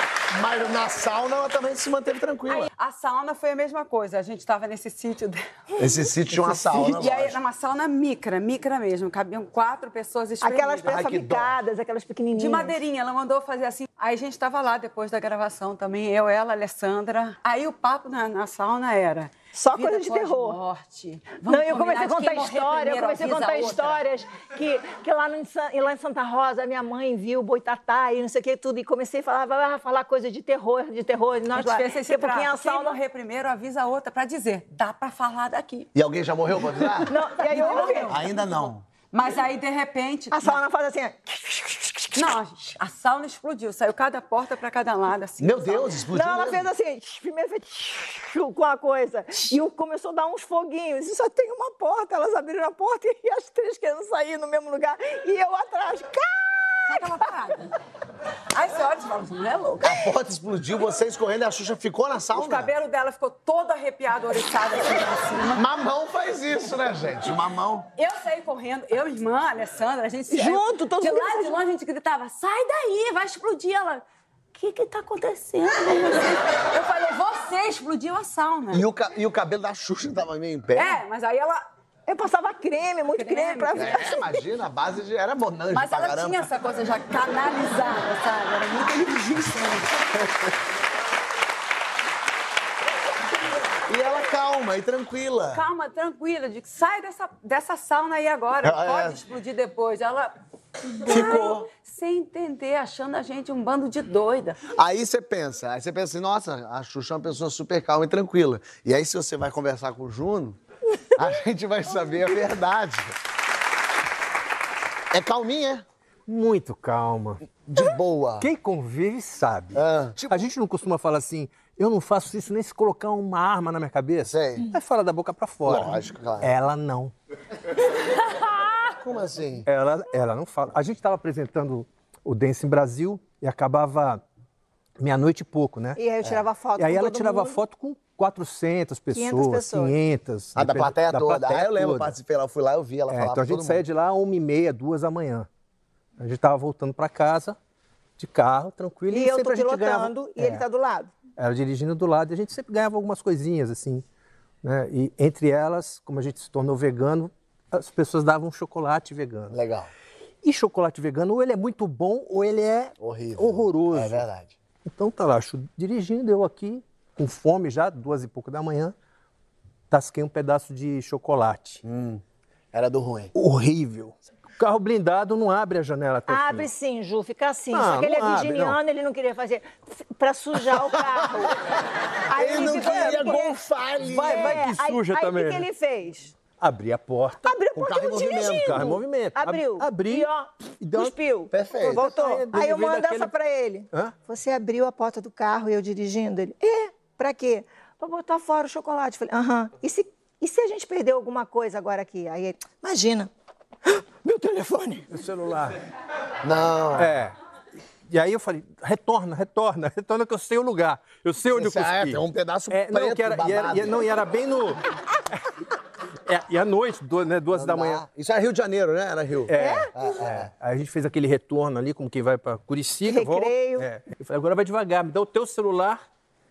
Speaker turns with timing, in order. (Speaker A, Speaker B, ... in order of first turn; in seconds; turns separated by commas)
Speaker A: 0.3-2.7, Speaker B: 2.5-5.4, Speaker A: 5.8-7.4, Speaker B: 6.5-11.0, Speaker C: 10.4-12.8, Speaker A: 10.8-11.6, Speaker B: 12.3-24.0, Speaker C: 19.6-20.6, Speaker C: 21.4-33.0, Speaker B: 31.5-35.9, Speaker A: 36.0-37.1, Speaker C: 37.1-38.2, Speaker B: 37.4-38.5, Speaker A: 38.1-38.9, Speaker B: 39.1-40.6, Speaker C: 40.3-42.3, Speaker B: 42.1-46.0, Speaker A: 45.4-46.7, Speaker C: 46.1-57.2, Speaker B: 56.9-57.6, Speaker B: 58.5-60.0, Speaker A: 59.8-62.7, Speaker B: 62.3-65.6, Speaker A: 65.5-67.9, Speaker B: 68.0-78.8, Speaker C: 70.3-71.6, Speaker A: 78.7-81.0, Speaker B: 80.7-81.6, Speaker C: 82.1-84.4, Speaker B: 83.2-83.9, Speaker A: 83.8-86.5, Speaker B: 85.7-89.9, Speaker A: 93.9-95.6, Speaker B: 95.5-100.4, Speaker A: 98.6-99.2, Speaker B: 101.0-104.6, Speaker A: 101.0-101.7, Speaker A: 104.8-110.6, Speaker A: 111.2-113.2, Speaker A: 115.1-115.8, Speaker D: 116.3-117.4, Speaker A: 117.7-118.5, Speaker D: 118.4-127.1, Speaker A: 119.8-120.5, Speaker A: 124.3-124.7, Speaker A: 125.7-126.5, Speaker A: 129.0-129.7, Speaker D: 129.7-134.2, Speaker D: 135.0-136.0, Speaker C: 136.0-137.6, Speaker D: 136.8-142.2, Speaker C: 139.1-140.0, Speaker A: 140.6-143.8, Speaker D: 143.1-145.5, Speaker D: 146.2-147.6, Speaker D: 148.2-150.6, Speaker C: 149.1-151.1, Speaker D: 151.4-154.0, Speaker D: 154.6-159.6, Speaker A: 159.5-159.9, Speaker D: 160.4-164.2, Speaker A: 163.0-164.6, Speaker D: 164.9-168.9, Speaker D: 169.9-171.8, Speaker A: 171.8-172.2, Speaker A: 172.7-173.3, Speaker D: 173.3-176.7, Speaker C: 176.3-181.6, Speaker D: 177.7-178.8, Speaker C: 182.3-183.6, Speaker A: 182.3-184.7, Speaker D: 184.0-185.7, Speaker C: 184.2-186.3, Speaker D: 186.6-187.4, Speaker C: 187.4-203.3, Speaker A: 187.8-189.0, Speaker D: 188.4-190.3, Speaker D: 190.8-191.2, Speaker A: 191.5-192.1, Speaker D: 191.8-193.3, Speaker C: 203.9-205.1, Speaker D: 205.1-205.7, Speaker A: 206.4-207.1, Speaker D: 207.0-207.3, Speaker D: 208.1-214.8, Speaker A: 211.5-214.1, Speaker D: 216.3-218.0, Speaker A: 217.5-220.5, Speaker D: 219.5-226.0, Speaker C: 219.6-219.9, Speaker C: 223.1-223.9